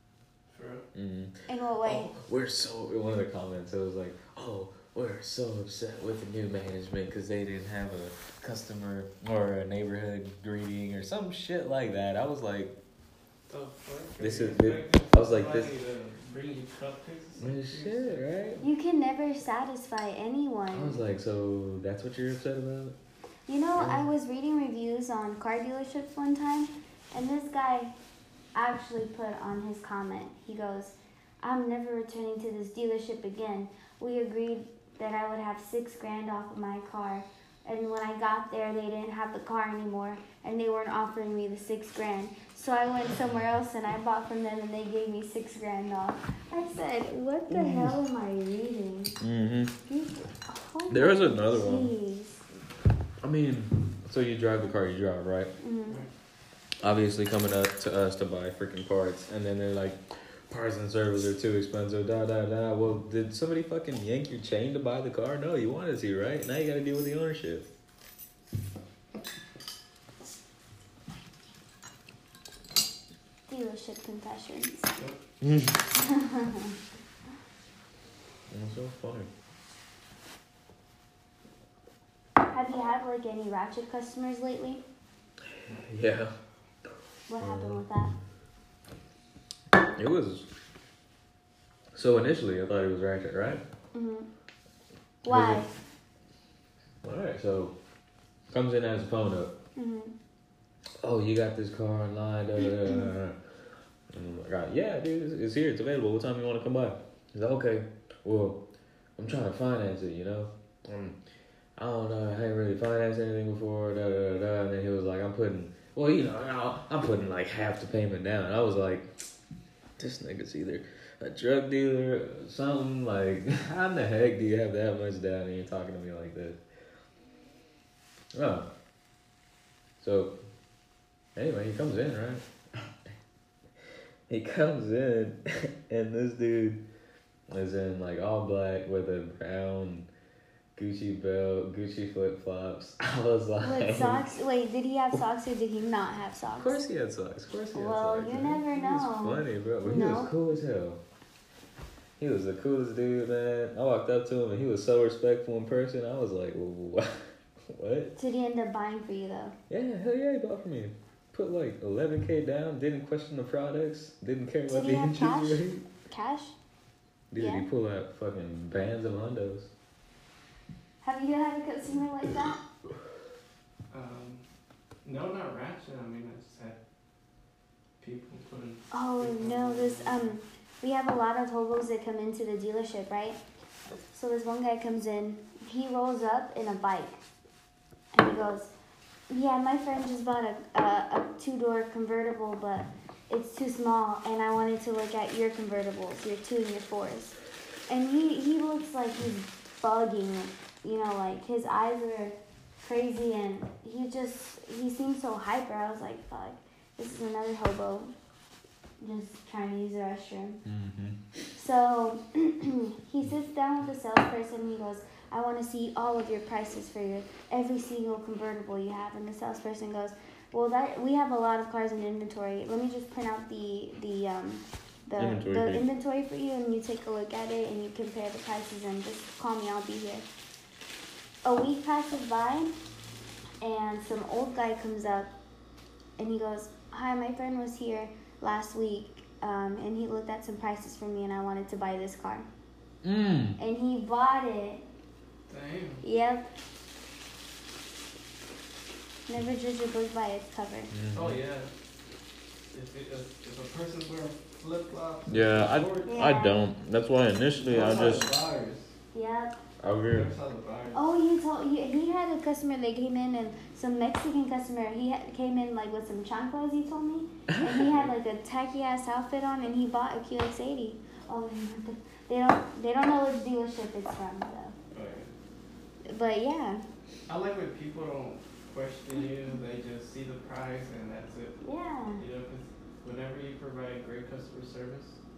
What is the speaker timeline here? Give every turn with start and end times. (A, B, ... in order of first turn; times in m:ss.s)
0:00.5-0:00.9 A
0:00.9-0:12.7 B
0:01.5-0:02.1 C
0:13.5-0:18.6 A
0:14.2-0:15.7 B
0:17.4-0:18.6 B
0:18.6-0:21.0 C
0:20.7-0:23.0 B
0:23.5-0:28.0 C
0:23.8-0:24.0 B
0:28.5-0:49.2 C
0:47.5-0:47.9 B
0:49.2-0:49.7 B
0:49.9-0:52.4 C
0:50.9-0:51.9 B
0:53.2-0:55.6 B
0:55.6-0:56.0 C
0:56.8-1:07.7 B
1:13.5-1:14.9 C
1:15.4-1:15.8 B
1:16.0-1:16.7 C
1:18.5-1:19.3 B
1:22.5-1:24.8 C
1:25.5-1:26.4 B
1:27.3-1:28.1 C
1:27.4-1:27.8 B
1:30.0-1:30.5 B
1:31.9-1:33.6 B
1:33.9-1:34.3 C
1:35.2-1:35.7 C
1:35.3-1:35.7 B
1:37.0-1:37.8 B
1:38.5-1:39.6 B
1:39.8-1:40.1 C
1:41.0-1:43.4 B
1:44.1-1:48.6 B
1:49.2-1:51.2 B
1:51.8-1:59.3 B
2:00.0-2:06.6 B
2:08.3-2:08.7 B
2:10.0-2:10.4 B
2:11.4-2:12.9 B
2:14.3-2:16.8 B
2:17.5-2:20.1 B
2:20.8-2:24.2 B
2:23.6-2:26.8 C
2:26.6-2:31.0 B
2:27.8-2:30.3 C
2:32.2-2:38.1 B
2:38.2-2:39.6 C
2:39.7-2:45.8 B
2:44.7-2:46.6 C
2:47.3-2:49.7 B
2:47.4-2:47.7 C
2:51.0-2:52.6 C
2:53.9-2:54.4 A
2:55.0-2:56.8 A
2:58.0-3:00.4 A
2:58.9-3:03.4 C
3:04.1-3:07.2 C
3:08.1-3:08.7 C
3:09.3-3:28.1 C
3:29.0-3:30.6 C
3:30.6-3:31.4 B
3:31.6-3:50.2 C
3:45.2-3:45.8 B
3:51.4-3:52.8 C
3:53.6-3:55.3 C
3:56.2-4:02.5 C
4:03.0-4:03.6 B
4:03.6-4:04.8 C
4:05.5-4:06.0 A
4:06.0-4:06.5 C
4:09.3-4:10.9 C
4:10.9-4:11.4 B
4:11.1-4:11.7 A
4:12.7-4:16.2 A
4:15.3-4:18.3 B
4:16.1-4:16.6 C
4:17.6-4:18.9 A
4:19.1-4:19.6 C
4:19.8-4:20.3 B
4:20.1-4:21.0 A
4:20.9-4:34.8 C
4:34.9-4:35.3 A
4:36.0-4:36.8 C
4:37.3-4:41.6 A
4:41.6-4:42.2 C
4:42.2-4:45.2 A